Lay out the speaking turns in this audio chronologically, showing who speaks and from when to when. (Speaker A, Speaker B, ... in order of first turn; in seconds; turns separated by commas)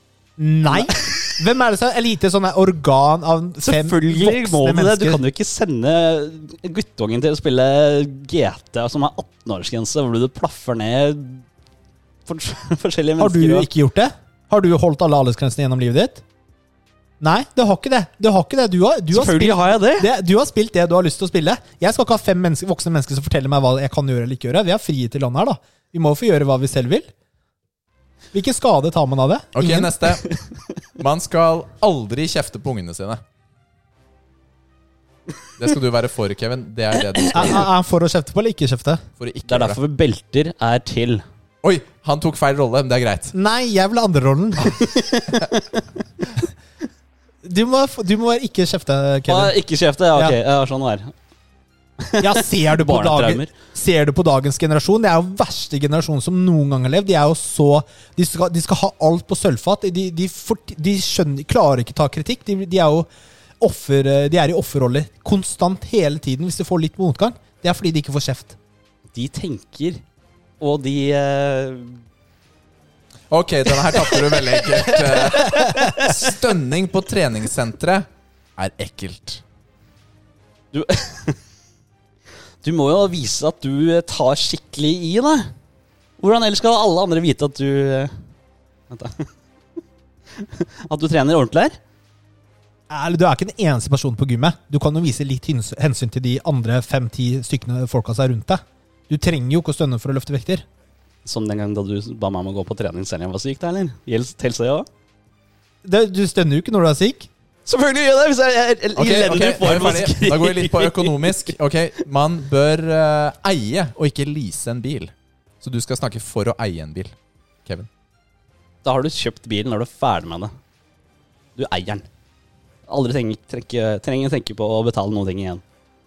Speaker A: 0.4-5.2, Speaker B: 0.8-1.2, Speaker B: 3.6-11.4, Speaker B: 12.3-13.7, Speaker A: 13.2-16.2, Speaker A: 17.2-27.1, Speaker B: 19.1-20.1, Speaker A: 28.3-29.9, Speaker C: 29.5-30.2, Speaker C: 31.0-33.2, Speaker C: 35.6-37.7, Speaker A: 37.3-39.0, Speaker C: 39.2-39.8, Speaker B: 39.5-41.2, Speaker C: 41.6-43.3, Speaker A: 43.3-44.9, Speaker B: 44.8-45.8, Speaker A: 47.4-49.6, Speaker B: 49.3-51.1, Speaker B: 52.0-53.5, Speaker A: 52.2-63.1, Speaker A: 63.6-68.6, Speaker B: 69.1-70.0, Speaker B: 70.6-72.0, Speaker C: 73.3-79.4, Speaker B: 73.9-76.2, Speaker B: 80.7-81.4, Speaker B: 82.6-85.5, Speaker B: 86.2-88.1, Speaker B: 88.9-89.3, Speaker B: 90.3-91.8, Speaker A: 92.9-100.7, Speaker B: 101.2-104.9, Speaker A: 105.8-107.3, Speaker B: 107.7-111.5, Speaker C: 109.0-117.9, Speaker B: 118.8-120.5, Speaker B: 121.6-122.1, Speaker B: 122.9-125.6